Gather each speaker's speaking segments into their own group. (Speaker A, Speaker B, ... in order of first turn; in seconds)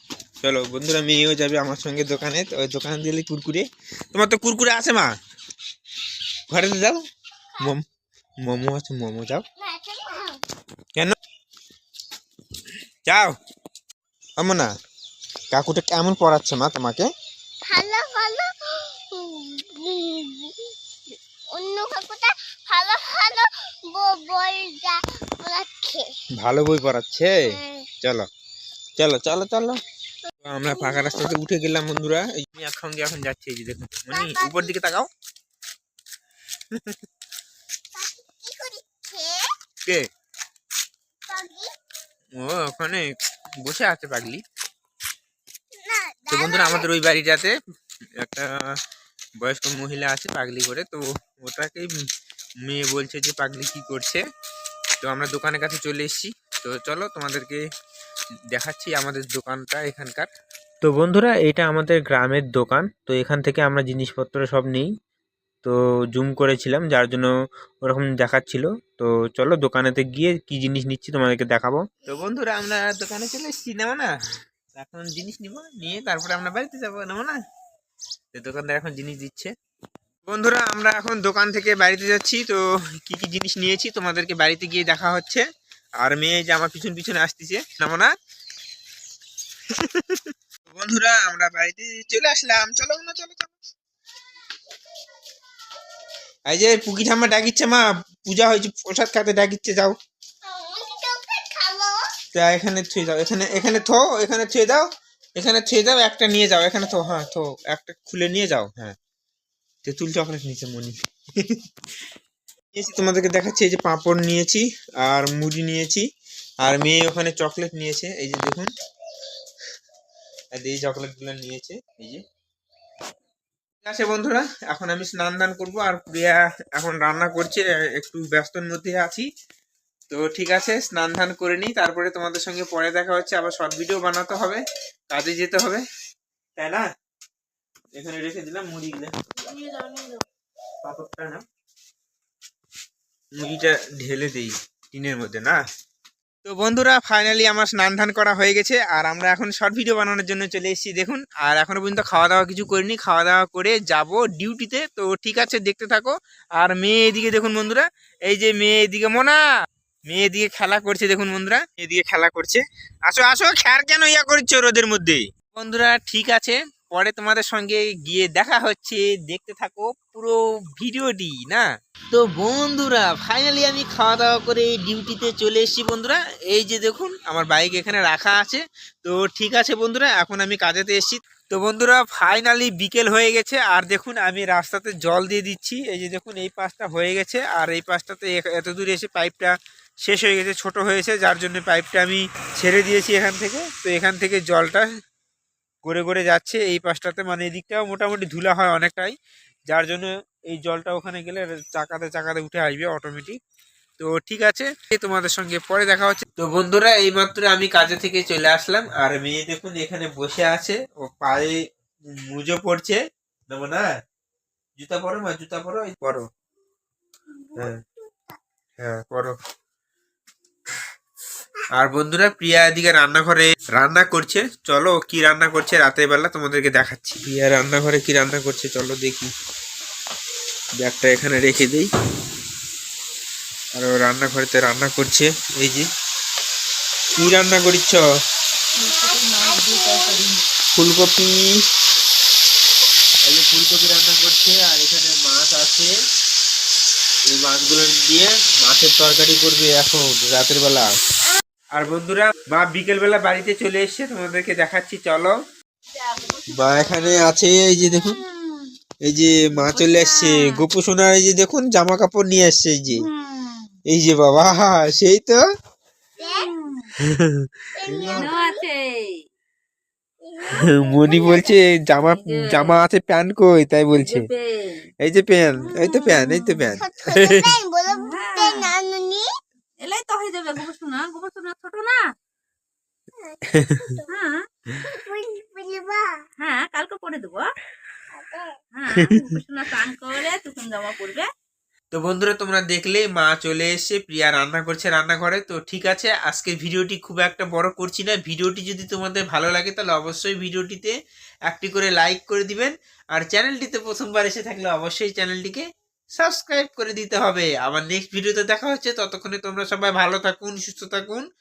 Speaker A: 0.4-5.1, 6.5-7.0, 8.4-9.4, 13.1-13.3, 14.4-14.7, 15.5-17.1, 26.4-27.4, 29.0-29.8, 30.4-35.1, 42.4-43.1, 43.6-44.4, 46.3-47.5, 48.2-48.5, 49.4-51.9, 52.6-54.2, 55.0-57.6, 58.5-60.3, 60.8-64.9, 65.6-67.3, 67.8-74.1, 74.7-77.4, 78.3-79.5, 80.2-85.4, 86.0-88.1, 89.8-93.5, 96.5-99.9, 102.3-109.0, 109.8-111.6, 112.7-116.0, 116.6-118.7, 120.5-122.2, 123.8-129.3, 130.1-135.8, 136.6-136.8, 138.0-139.1, 140.8-141.4, 143.4-145.6, 146.4-159.4, 160.1-189.5, 190.0-194.8, 195.8-199.1, 199.7-203.4, 204.0-211.6, 212.1-213.0, 213.5-213.8, 214.8-216.2, 218.8-219.3, 221.7-229.3, 230.8-231.9, 233.8-235.8, 237.1-238.0, 240.7-241.5, 243.2-245.9, 247.3-250.9, 251.7-255.4, 256.5-258.2, 259.0-263.0, 263.9-265.4, 267.1-268.2, 270.5-274.2, 275.0-277.5, 283.5-283.9, 289.0-289.4, 291.9-300.9, 301.5-305.6, 306.1-311.2
Speaker B: 9.6-10.4, 17.7-20.6, 21.5-26.1, 27.4-27.9, 30.7-31.3, 34.1-34.7, 37.9-39.5, 41.3-41.7, 45.8-46.9, 100.4-102.0, 217.4-217.7, 239.1-240.2, 266.2-266.5, 267.7-268.6, 270.2-271.5, 275.7-276.2, 276.8-279.3, 283.2-284.1, 284.8-286.2, 288.2-288.5
Speaker C: 238.8-240.4, 256.0-257.3, 257.9-258.7, 259.6-260.6, 262.9-263.8, 266.2-266.9, 267.9-269.2, 272.1-272.8, 274.0-274.9, 275.6-276.7, 277.9-278.7, 279.8-282.0, 284.1-284.5, 286.4-287.5, 288.7-291.3